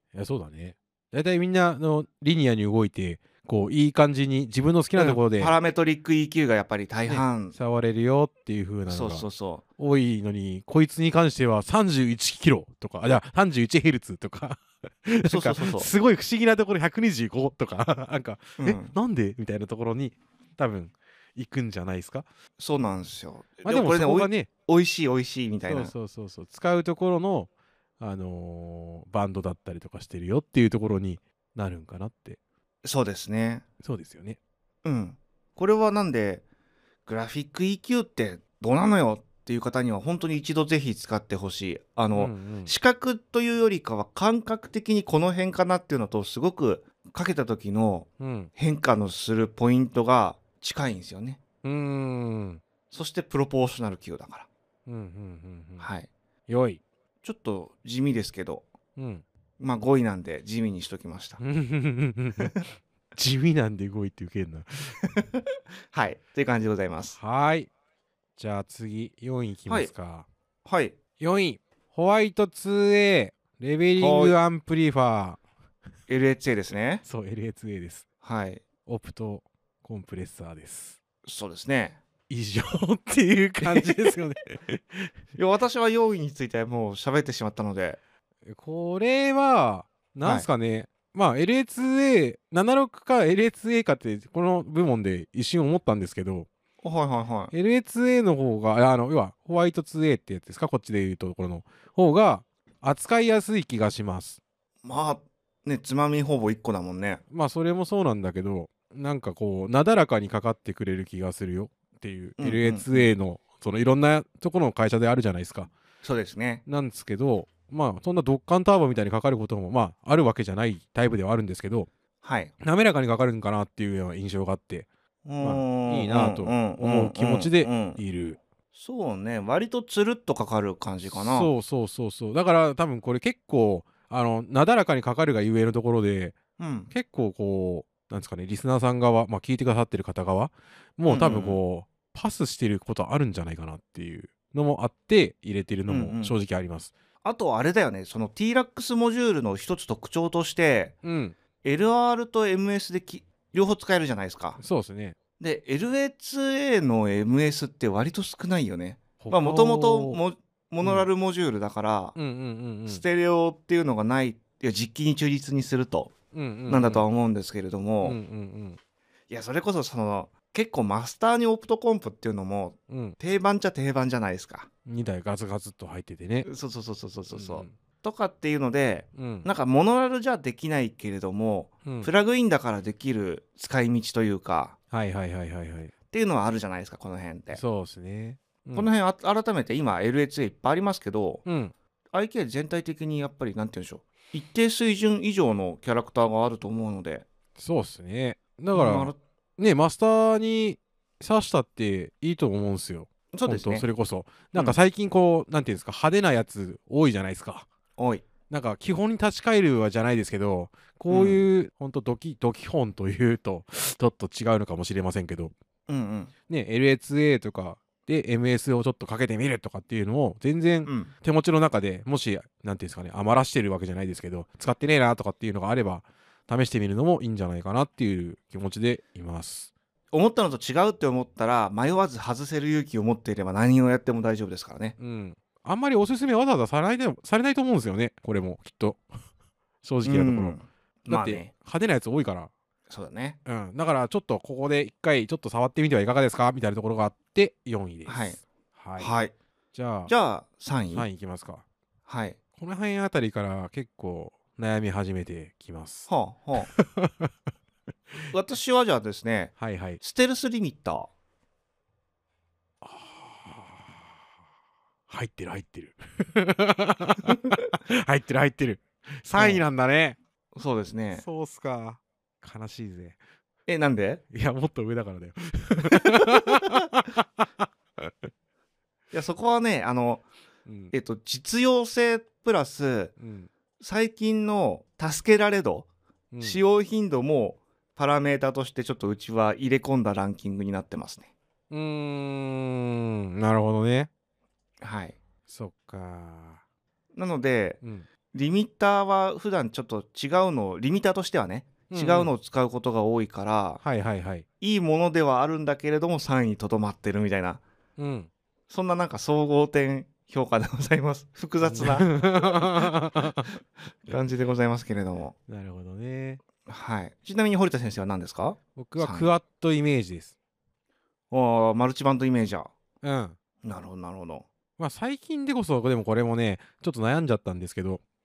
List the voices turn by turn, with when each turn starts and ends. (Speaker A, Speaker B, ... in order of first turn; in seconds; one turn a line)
Speaker A: 0.1-5.5
Speaker B: 5.0-7.5
Speaker A: 7.1-9.3
Speaker B: 8.9-9.6
Speaker A: 9.8-22.3
Speaker B: 15.2-15.9
Speaker B: 18.6-19.0
Speaker B: 22.6-25.9
Speaker A: 23.6-24.5
Speaker A: 25.7-32.4
Speaker B: 32.8-33.6
Speaker A: 33.8-34.4
Speaker B: 34.8-36.4
Speaker B: 37.1-51.4
Speaker A: 42.1-42.7
Speaker A: 48.2-48.5
Speaker A: 51.6-52.6
Speaker B: 52.9-54.5
Speaker A: 54.9-55.9
Speaker B: 55.8-56.1
Speaker A: 56.5-56.8
Speaker B: 57.2-58.7
Speaker A: 59.0-59.2
Speaker B: 59.6-61.4
Speaker A: 61.4-62.6
Speaker A: 63.1-65.0
Speaker B: 65.0-67.2
Speaker A: 67.2-67.7
Speaker A: 68.4-70.3
Speaker B: 70.7-71.0
Speaker A: 71.2-75.4
Speaker B: 74.0-74.4
Speaker B: 76.1-77.0
Speaker A: 77.0-78.0
Speaker B: 78.2-78.6
Speaker A: 78.9-81.0
Speaker B: 81.3-82.0
Speaker A: 82.3-85.1
Speaker B: 83.6-84.2
Speaker B: 85.4-88.0
Speaker A: 88.5-96.5
Speaker B: 96.8-97.5
Speaker A: 97.5-104.4
Speaker B: 104.8-107.2
Speaker A: 107.3-115.7
Speaker B: 112.4-113.1
Speaker B: 116.0-116.6
Speaker A: 116.7-121.9
Speaker B: 122.2-122.5
Speaker A: 122.6-124.9
Speaker B: 125.2-128.0
Speaker A: 125.4-128.4
Speaker B: 128.7-131.5
Speaker A: 131.1-136.4
Speaker B: 136.6-136.9
Speaker A: 136.9-146.9
Speaker B: 141.1-141.6
Speaker B: 145.9-146.3
Speaker B: 147.2-150.9
Speaker A: 151.0-151.4
Speaker B: 151.6-154.6
Speaker A: 154.6-155.2
Speaker B: 155.4-162.2
Speaker A: 159.2-160.2
Speaker A: 160.8-161.1
Speaker A: 162.2-163.0
Speaker B: 162.9-166.1
Speaker A: 166.3-167.1
Speaker B: 166.7-168.2
Speaker A: 168.0-168.8
Speaker B: 169.3-174.7
Speaker A: 172.9-173.2
Speaker A: 174.9-176.5
Speaker B: 176.4-184.8
Speaker A: 177.3-177.8
Speaker A: 179.2-179.5
Speaker A: 181.8-182.1
Speaker A: 184.9-185.9
Speaker B: 186.1-187.6
Speaker A: 187.5-188.9
Speaker B: 188.8-191.4
Speaker A: 191.5-191.7
Speaker B: 192.1-197.3
Speaker A: 197.6-207.7
Speaker B: 198.7-199.2
Speaker B: 203.3-203.9
Speaker B: 208.0-208.3
Speaker A: 208.5-215.5
Speaker B: 211.1-211.4
Speaker B: 215.9-216.3
Speaker A: 216.5-229.7
Speaker B: 220.9-221.1
Speaker B: 230.1-235.0
Speaker A: 235.0-239.0
Speaker A: 239.8-242.5
Speaker B: 240.1-241.5
Speaker B: 242.9-243.4
Speaker A: 243.5-249.1
Speaker B: 248.1-248.4
Speaker B: 249.0-249.3
Speaker A: 249.7-250.1
Speaker B: 250.1-251.1
Speaker A: 250.9-251.6
Speaker B: 252.1-252.4
Speaker A: 252.6-257.3
Speaker B: 256.1-256.7
Speaker B: 258.3-261.1
Speaker A: 259.6-260.0
Speaker A: 262.8-264.0
Speaker A: 265.1-270.2
Speaker B: 269.4-269.6
Speaker B: 270.5-271.2
Speaker A: 271.1-273.2
Speaker B: 273.7-274.2
Speaker A: 274.3-278.3
Speaker B: 275.8-276.8
Speaker B: 279.1-280.2
Speaker A: 280.7-280.9
Speaker B: 280.9-283.1
Speaker A: 283.2-283.5
Speaker B: 283.8-285.9
Speaker A: 286.3-286.6
Speaker B: 286.4-291.3
Speaker A: 291.7-294.1
Speaker B: 294.8-295.2
Speaker A: 295.5-296.6
Speaker B: 297.1-297.8
Speaker A: 297.8-298.1
Speaker B: 298.3-303.8
Speaker A: 301.9-302.3
Speaker A: 303.8-304.4
Speaker B: 304.6-307.6
Speaker A: 308.0-308.3
Speaker B: 308.7-312.9
Speaker A: 311.6-313.5
Speaker B: 314.1-315.4
Speaker A: 315.5-316.4
Speaker B: 316.6-319.3
Speaker A: 318.8-320.4
Speaker B: 321.3-322.7
Speaker A: 323.0-323.4
Speaker B: 323.6-324.5
Speaker A: 324.8-328.0